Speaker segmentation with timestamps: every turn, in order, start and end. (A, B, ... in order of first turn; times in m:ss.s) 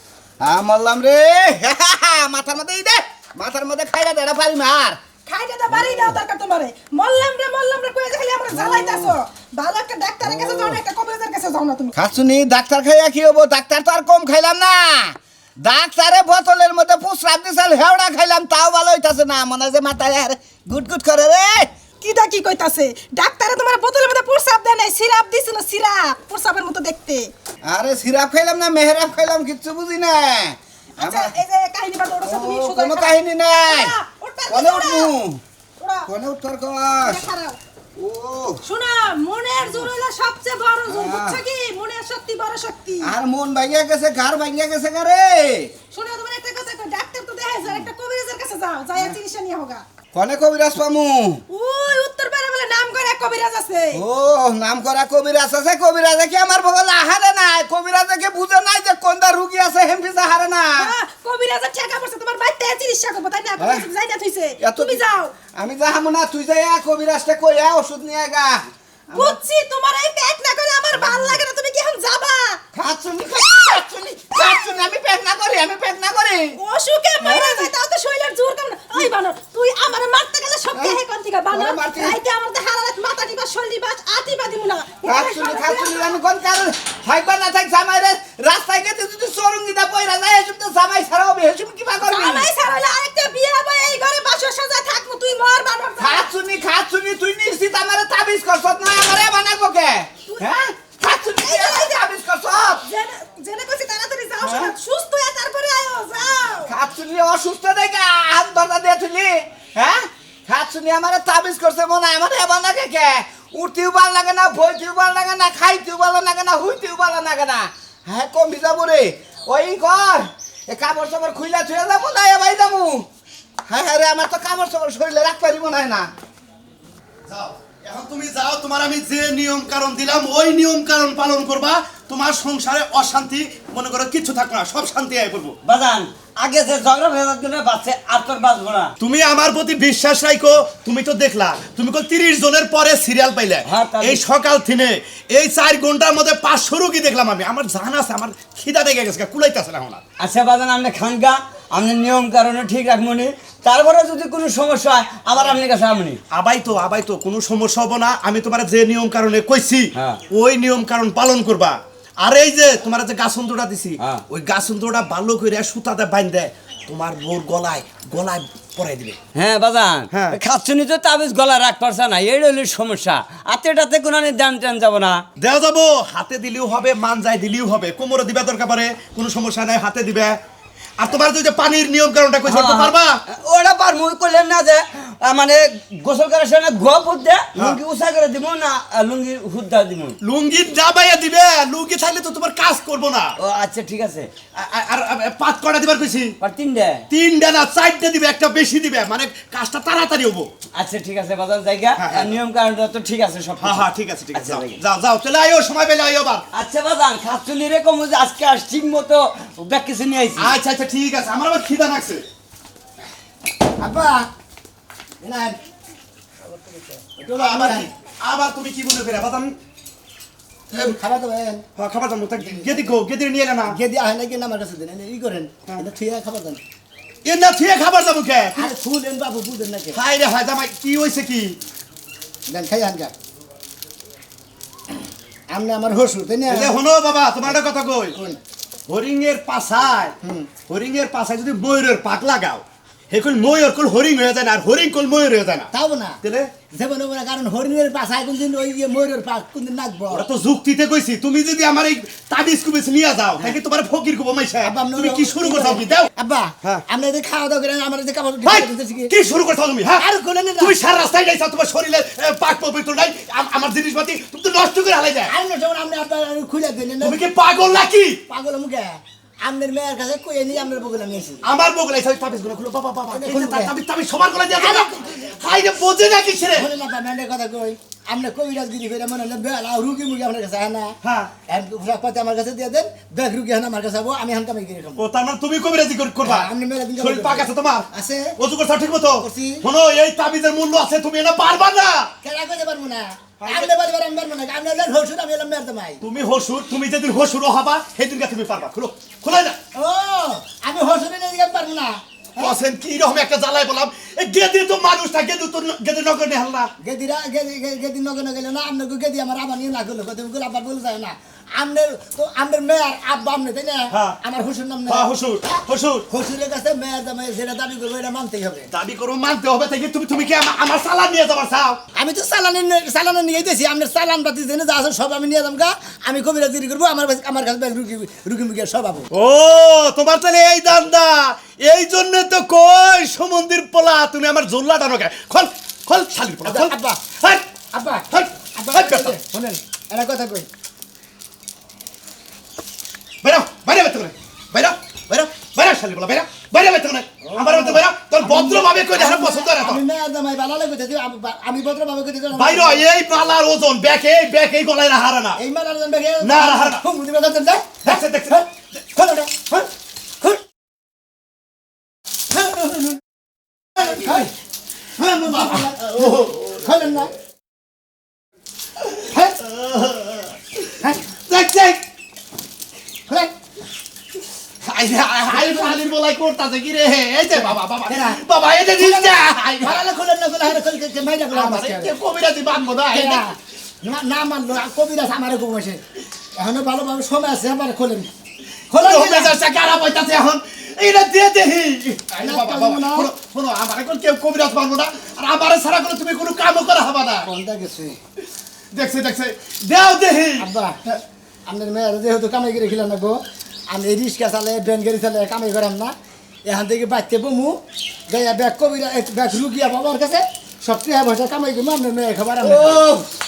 0:00.4-0:05.0 A
0:05.3-0:11.9 B
0:08.5-0:09.2 A
0:10.2-0:10.8 A
0:12.0-0:21.7 A
0:22.0-0:27.3 B
0:27.6-0:31.4 A
0:31.0-0:35.2 B
0:32.2-0:34.0 A
0:34.5-0:35.4 A
0:35.8-0:36.1 B
0:36.1-0:37.2 A
0:37.0-0:37.6 B
0:38.0-0:38.6 A
0:38.7-0:43.1 B
0:40.9-0:41.4 A
0:43.0-0:45.7 A
0:45.9-0:49.8 B
0:50.1-0:51.4 A
0:51.5-0:54.0 B
0:53.9-1:00.9 A
1:00.8-1:05.3 B
1:03.6-1:03.9 A
1:04.6-1:09.4 A
1:09.1-1:12.6 B
1:12.7-1:16.6 A
1:14.5-1:14.8 B
1:16.6-1:26.2 B
1:17.2-1:17.7 A
1:20.8-1:21.0 A
1:21.5-1:22.2 A
1:25.0-1:32.5 A
1:32.1-1:36.3 B
1:36.0-1:42.8 A
1:40.3-1:40.6 B
1:41.2-1:42.1 B
1:42.7-1:46.7 B
1:44.4-1:44.8 A
1:46.7-2:03.1 A
2:03.7-2:06.1 A
2:07.3-2:15.6 C
2:15.6-2:18.9 D
2:19.0-2:30.0 C
2:23.6-2:24.2 D
2:30.2-2:36.2 D
2:36.3-2:49.2 C
2:40.0-2:40.2 D
2:49.4-2:55.2 D
2:50.1-2:50.4 C
2:55.4-3:00.4 C
3:01.0-3:03.2 C
3:02.4-3:10.2 D
3:10.2-3:13.3 C
3:13.4-3:14.3 D
3:14.6-3:16.4 C
3:16.4-3:17.1 D
3:17.1-3:20.5 C
3:20.8-3:24.8 D
3:22.0-3:22.4 C
3:23.6-3:26.4 C
3:26.5-3:30.6 D
3:30.4-3:32.2 C
3:33.8-3:34.3 E
3:35.2-3:35.6 E
3:37.2-3:37.9 E
3:37.4-3:39.5 C
3:40.8-3:41.6 E
3:41.8-3:43.7 C
3:42.4-3:42.9 E
3:43.7-3:46.6 E
3:47.2-3:48.7 C
3:48.6-3:50.0 E
3:49.9-3:51.6 C
3:52.5-3:53.1 E
3:55.5-3:56.8 E
3:56.5-3:58.2 C
3:58.9-4:00.2 C
4:00.7-4:05.7 C
4:05.7-4:06.2 E
4:06.2-4:06.5 C
4:06.7-4:10.3 E
4:10.1-4:16.0 C
4:14.6-4:19.1 E
4:18.4-4:20.0 C
4:20.0-4:20.8 E
4:20.6-4:25.3 C
4:25.3-4:27.2 E
4:27.0-4:28.2 C
4:28.3-4:31.4 E
4:31.4-4:34.9 C
4:33.1-4:33.8 E
4:34.5-4:35.3 E
4:35.4-4:36.7 C
4:36.5-4:41.0 E
4:41.0-4:41.3 C
4:41.5-4:45.0 E
4:45.0-4:47.9 C
4:46.2-4:48.3 E
4:48.4-4:52.1 C
4:49.2-4:49.6 E
4:52.2-4:56.0 E
4:53.4-4:53.7 C
4:56.0-4:59.6 C
4:59.8-5:02.6 E
5:02.4-5:06.7 C
5:06.8-5:18.7 E
5:13.9-5:14.2 C
5:14.9-5:16.0 C
5:18.7-5:21.8 C
5:22.0-5:29.1 E
5:29.1-5:37.4 C
5:36.4-5:37.0 E
5:37.7-5:40.5 E
5:38.1-5:39.2 C
5:43.2-5:49.8 C
5:47.2-5:52.8 E
5:52.3-5:55.4 C
5:55.4-5:59.7 E
5:56.2-5:56.8 C
5:57.8-5:58.4 C
6:02.3-6:03.0 E
6:03.8-6:04.3 E
6:05.0-6:07.1 E
6:05.3-6:06.4 C
6:09.1-6:09.4 E
6:09.6-6:10.2 C
6:11.3-6:11.8 C
6:14.6-6:19.8 C
6:15.3-6:15.8 E
6:17.3-6:18.2 E
6:18.8-6:22.0 E
6:21.3-6:23.2 C
6:22.9-6:25.8 E
6:26.4-6:28.1 E
6:28.7-6:29.4 E
6:28.7-6:37.3 C
6:32.2-6:33.1 E
6:37.2-6:38.0 E
6:38.7-6:40.5 C
6:40.4-6:40.8 E
6:41.5-6:43.2 E
6:43.7-6:45.9 E
6:46.5-6:47.6 E
6:48.1-6:52.8 E
6:52.4-6:53.0 A